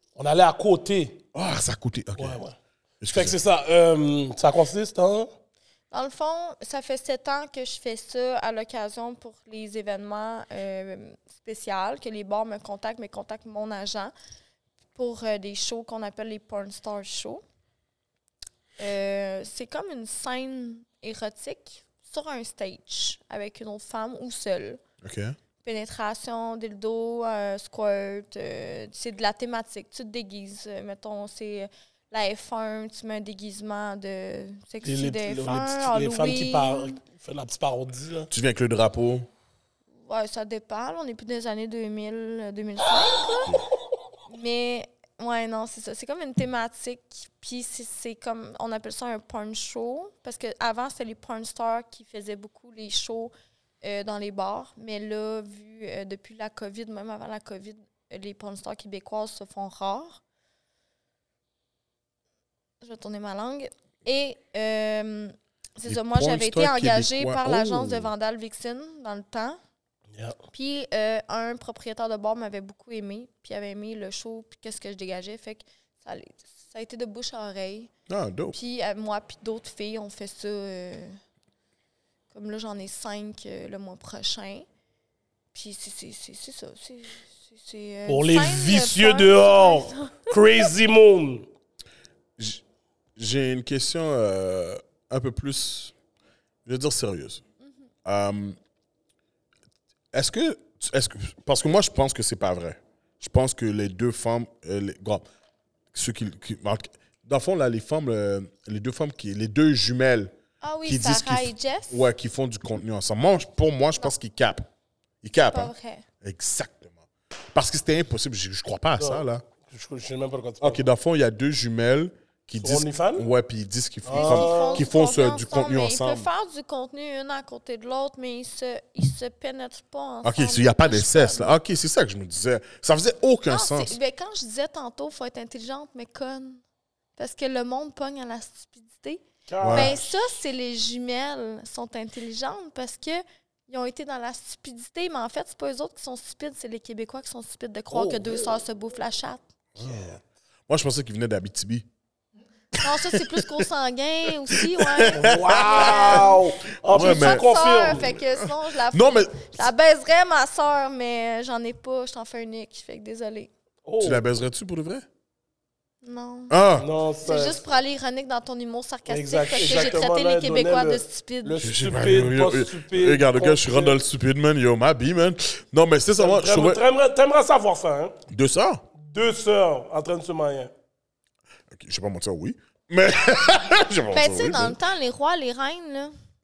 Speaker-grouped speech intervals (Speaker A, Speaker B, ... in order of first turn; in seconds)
Speaker A: 0.1-1.2, 2.2-2.5, 3.0-5.3, 34.8-38.3, 88.1-91.5, 119.0-120.8, 122.6-123.2, 124.0-124.9, 139.5-140.0, 147.9-148.6, 155.1-158.2, 163.8-164.2, 166.8-167.6, 169.1-173.9, 176.2-178.1, 179.0-180.7
Speaker B: 1.3-2.4, 3.0-3.4, 25.0-25.4, 38.3-39.3, 65.9-68.1, 78.1-78.6, 93.2-95.9, 96.6-97.4, 98.0-98.6, 100.1-105.2, 105.9-110.3, 110.8-114.7, 115.2-115.7, 116.2-117.0, 117.5-119.4, 120.6-126.3, 130.2-134.0, 139.6-140.0, 149.8-151.8, 152.8-153.7, 154.5-156.3, 156.8-157.4, 158.1-159.6, 164.0-165.0, 166.5-166.9, 171.6-176.8, 178.3-178.8, 181.7-184.8
Speaker C: 5.9-14.1, 14.9-17.4, 18.8-24.8, 25.6-37.0, 40.0-43.5, 44.3-60.2, 62.8-69.6, 70.5-77.9, 78.5-81.2, 82.3-84.7, 85.5-90.3, 110.6-112.0, 115.3-116.0, 124.1-131.6, 133.5-136.6, 137.2-149.4, 152.8-163.5, 166.0-166.6, 167.2-171.6, 184.1-186.1